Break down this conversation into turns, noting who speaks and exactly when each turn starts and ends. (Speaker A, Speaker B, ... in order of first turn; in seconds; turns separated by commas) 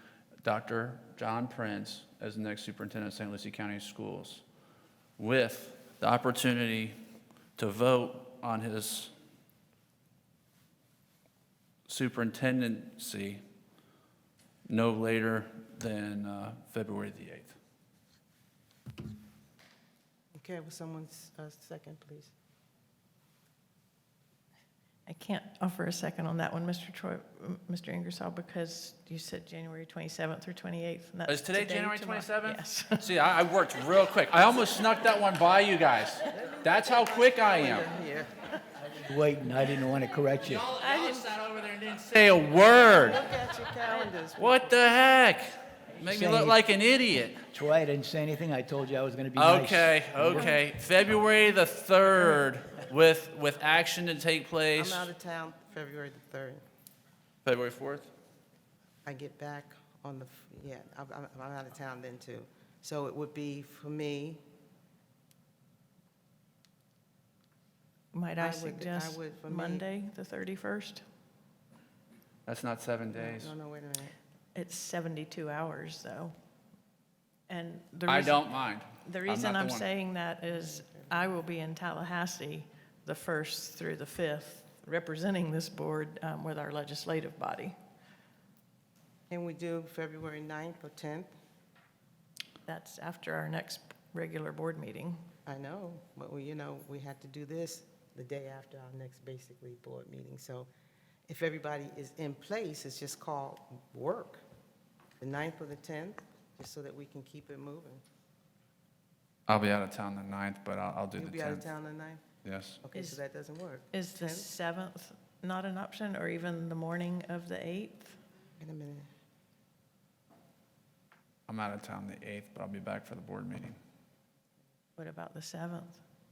Speaker A: 0.4-4.4, Speaker A: 5.2-7.0, Speaker A: 7.6-9.1, Speaker A: 11.9-13.4, Speaker A: 14.7-17.6, Speaker B: 20.4-22.3, Speaker C: 25.1-33.1, Speaker A: 31.3-37.9, Speaker B: 36.3-38.5, Speaker D: 39.0-40.8, Speaker C: 40.7-41.4, Speaker A: 41.3-43.2, Speaker B: 42.9-44.8, Speaker A: 44.4-45.5, Speaker A: 46.0-47.4, Speaker D: 46.0-46.6, Speaker D: 47.5-50.5, Speaker A: 49.4-55.1, Speaker B: 54.7-56.6, Speaker A: 57.4-58.1, Speaker B: 59.0-64.4, Speaker C: 68.1-71.0, Speaker B: 68.4-69.8, Speaker A: 72.5-73.5, Speaker B: 73.1-74.2, Speaker C: 74.5-76.3, Speaker C: 77.5-87.8, Speaker A: 78.1-79.9, Speaker B: 80.5-81.3, Speaker B: 89.3-91.3, Speaker C: 92.7-95.2, Speaker B: 95.5-100.7, Speaker B: 101.3-104.4, Speaker B: 105.2-108.0, Speaker A: 109.5-111.7, Speaker B: 111.2-112.2, Speaker A: 112.4-112.8, Speaker B: 112.8-114.5, Speaker C: 112.9-113.2, Speaker C: 113.9-118.2, Speaker B: 118.6-119.1, Speaker A: 121.5-123.8, Speaker C: 125.0-126.0